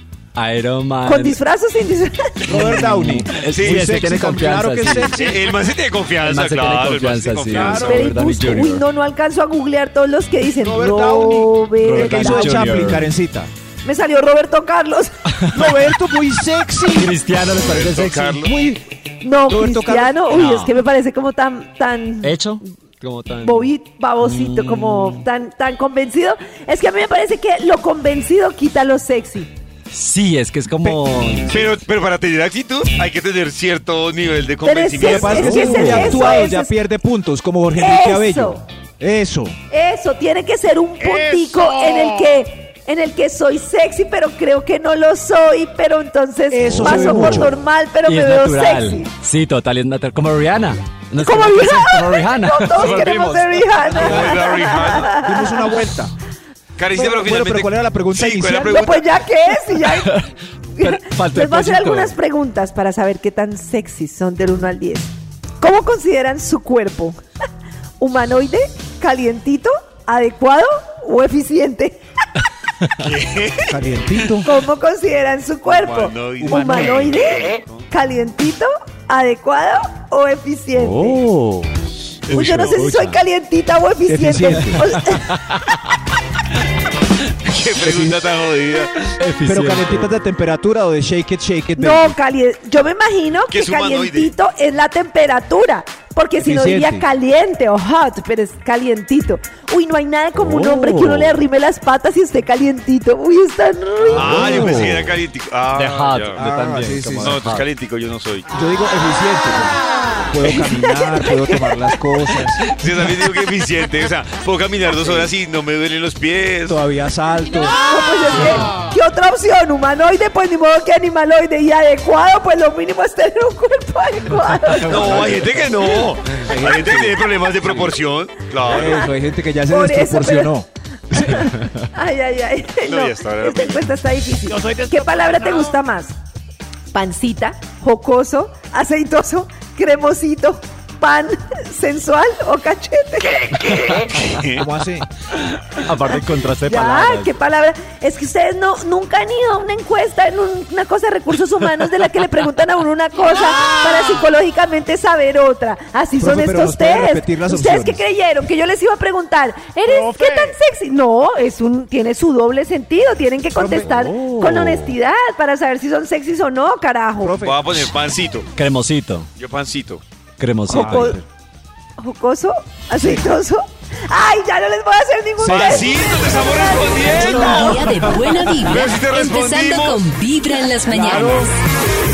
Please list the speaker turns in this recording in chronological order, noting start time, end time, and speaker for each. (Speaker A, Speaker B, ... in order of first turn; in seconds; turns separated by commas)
Speaker A: 0.3-1.4, Speaker B: 1.1-2.5, Speaker C: 2.5-5.4, Speaker A: 2.5-5.2, Speaker D: 3.5-4.0, Speaker D: 4.8-8.0, Speaker A: 6.2-8.8, Speaker C: 7.5-8.1, Speaker B: 7.9-12.8, Speaker C: 10.6-13.5, Speaker A: 11.8-13.1, Speaker B: 13.8-15.1, Speaker A: 15.3-15.8, Speaker C: 15.5-17.1, Speaker A: 16.9-18.5, Speaker D: 17.6-18.5, Speaker C: 18.4-18.9, Speaker B: 19.2-22.4, Speaker C: 19.5-20.1, Speaker A: 20.3-20.7, Speaker A: 22.2-23.7, Speaker B: 23.4-29.5, Speaker A: 24.2-25.2, Speaker A: 29.9-31.8, Speaker D: 31.5-36.0, Speaker B: 34.6-36.7, Speaker C: 35.0-39.5, Speaker A: 35.2-36.5, Speaker B: 37.7-38.6, Speaker B: 39.7-49.1, Speaker C: 46.5-47.6, Speaker A: 46.7-47.5, Speaker A: 48.0-53.6, Speaker B: 51.2-55.8, Speaker D: 52.8-55.1, Speaker C: 53.9-56.1, Speaker D: 56.8-59.1, Speaker C: 56.9-58.9, Speaker B: 58.7-60.2, Speaker A: 59.8-60.3, Speaker B: 60.8-67.2, Speaker A: 60.8-62.2, Speaker B: 68.0-72.0, Speaker D: 73.0-73.8, Speaker C: 73.7-74.5, Speaker B: 74.4-81.2, Speaker D: 75.7-77.8, Speaker C: 76.4-77.0, Speaker A: 80.8-81.7, Speaker D: 82.3-82.8, Speaker A: 82.3-83.2, Speaker B: 82.3-85.3, Speaker C: 84.1-85.0, Speaker A: 84.5-85.8, Speaker D: 87.4-89.1, Speaker C: 87.8-88.2, Speaker A: 89.2-90.1, Speaker C: 89.5-92.2, Speaker B: 91.8-104.8, Speaker D: 93.5-94.3, Speaker C: 96.4-97.1, Speaker A: 100.4-101.4, Speaker D: 104.1-106.4, Speaker C: 104.1-105.0, Speaker A: 104.3-105.1, Speaker A: 105.8-107.7, Speaker C: 106.4-107.4, Speaker D: 107.2-108.5, Speaker C: 108.5-109.8, Speaker C: 110.3-112.7, Speaker B: 110.4-111.9, Speaker D: 112.6-116.8, Speaker C: 115.0-115.3, Speaker C: 116.7-117.8, Speaker B: 117.7-126.1, Speaker D: 124.8-128.9, Speaker C: 124.9-125.4, Speaker C: 126.4-128.0, Speaker C: 128.6-131.5, Speaker B: 128.7-129.2, Speaker B: 129.7-130.6, Speaker B: 131.1-136.2, Speaker D: 132.8-133.8, Speaker B: 136.9-144.0, Speaker D: 144.1-144.7, Speaker C: 144.6-145.1, Speaker A: 145.8-147.4, Speaker B: 146.6-167.4, Speaker C: 156.2-158.0, Speaker C: 159.9-160.3, Speaker C: 163.6-164.7, Speaker A: 164.4-164.9, Speaker C: 167.2-167.9, Speaker D: 167.4-168.5, Speaker A: 168.6-169.3, Speaker D: 169.4-170.0, Speaker A: 170.4-171.2, Speaker B: 170.7-171.2, Speaker C: 170.7-171.2, Speaker B: 172.0-177.7, Speaker C: 173.0-173.2, Speaker C: 175.4-175.9, Speaker D: 175.4-180.1, Speaker E: 177.1-181.6, Speaker C: 180.9-181.5, Speaker D: 180.9-181.5